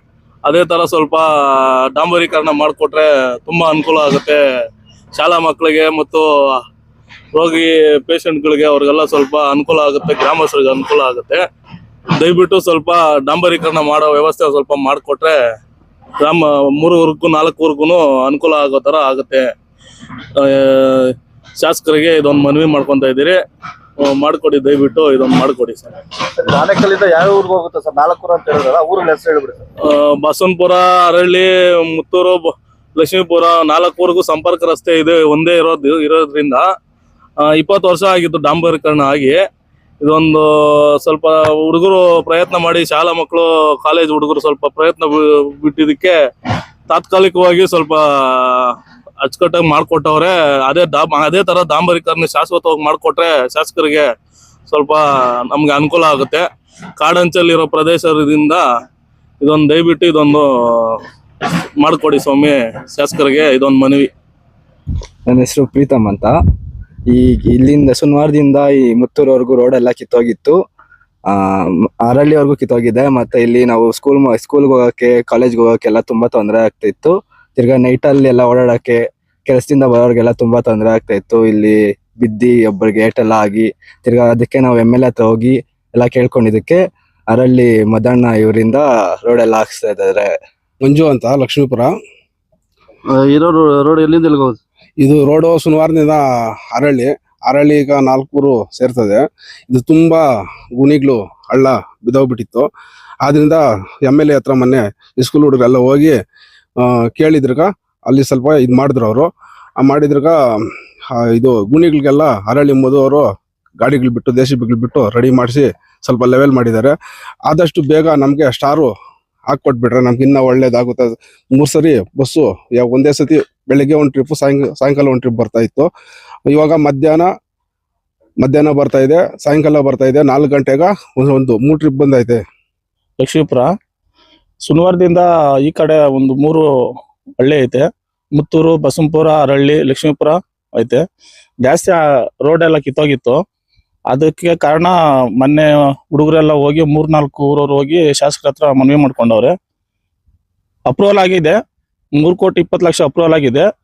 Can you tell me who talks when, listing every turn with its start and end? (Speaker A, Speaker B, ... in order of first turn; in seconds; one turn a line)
Speaker A: 0.4-4.4
Speaker A: 5.1-6.3
Speaker A: 7.3-11.4
Speaker A: 12.2-15.4
Speaker A: 16.2-19.5
Speaker A: 20.4-23.4
Speaker A: 24.0-25.9
Speaker B: 26.5-29.6
Speaker A: 29.8-36.7
Speaker A: 37.4-39.4
Speaker A: 40.0-46.1
Speaker A: 46.9-54.1
Speaker A: 54.7-56.5
Speaker A: 57.0-58.6
Speaker A: 59.4-61.0
Speaker A: 61.8-64.1
Speaker C: 65.3-66.3
Speaker C: 67.1-70.6
Speaker C: 71.3-90.3
Speaker D: 90.8-91.9
Speaker B: 93.1-94.6
Speaker D: 95.0-100.2
Speaker D: 100.8-102.7
Speaker D: 103.2-106.2
Speaker D: 106.8-110.3
Speaker D: 111.1-113.2
Speaker D: 113.8-118.9
Speaker D: 119.5-125.9
Speaker D: 126.5-127.3
Speaker D: 128.4-132.4
Speaker E: 133.2-133.7
Speaker E: 134.6-136.6
Speaker E: 137.4-141.0
Speaker E: 141.6-143.4
Speaker E: 144.1-149.5
Speaker E: 150.9-151.6
Speaker E: 152.2-153.7